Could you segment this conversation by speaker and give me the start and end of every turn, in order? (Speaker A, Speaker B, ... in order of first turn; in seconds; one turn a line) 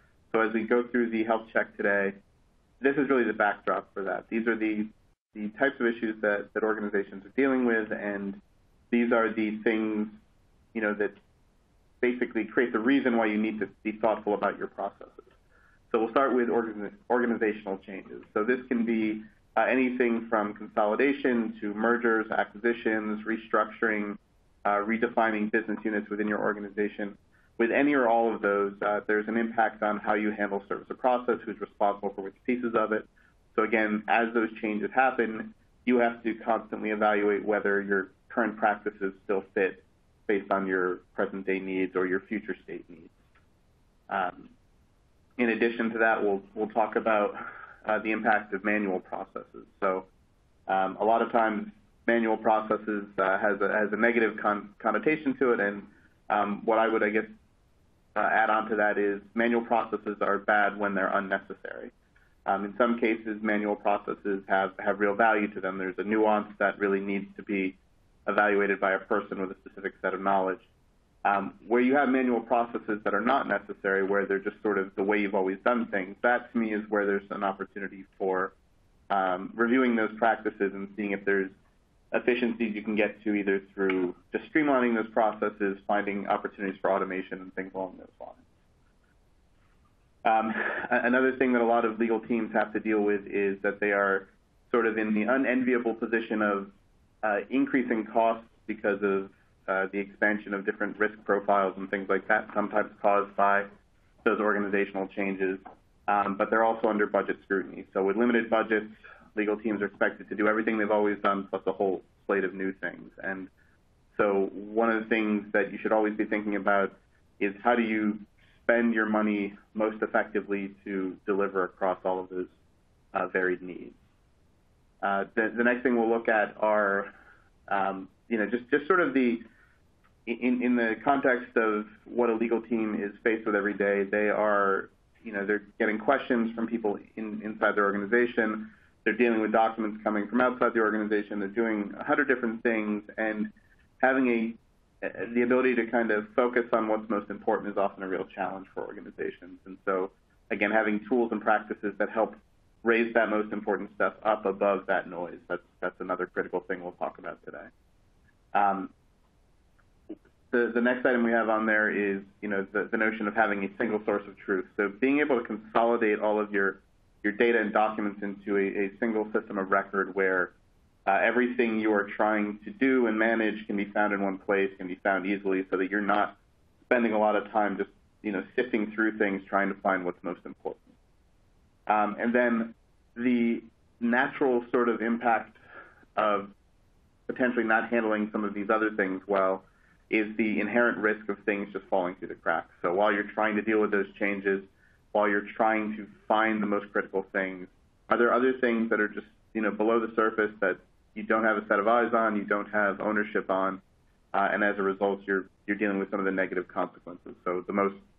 Speaker A: 0.3-2.2
Speaker A: 2.8-8.4
Speaker A: 8.9-10.2
Speaker A: 10.7-11.2
Speaker A: 12.0-15.3
Speaker A: 15.9-43.2
Speaker A: 44.1-44.5
Speaker A: 45.4-50.1
Speaker A: 50.7-57.3
Speaker A: 58.1-61.9
Speaker A: 62.5-70.7
Speaker A: 71.2-78.5
Speaker A: 79.1-81.5
Speaker A: 82.1-88.4
Speaker A: 90.2-96.7
Speaker A: 97.2-103.7
Speaker A: 104.2-113.5
Speaker A: 114.1-122.5
Speaker A: 123.1-124.0
Speaker A: 125.0-127.1
Speaker A: 127.7-129.4
Speaker A: 130.3-157.7
Speaker A: 158.5-158.9
Speaker A: 160.5-170.5
Speaker A: 171.1-176.4
Speaker A: 176.9-180.9
Speaker A: 181.9-185.6
Speaker A: 186.2-186.5
Speaker A: 187.3-203.8
Speaker A: 204.3-208.0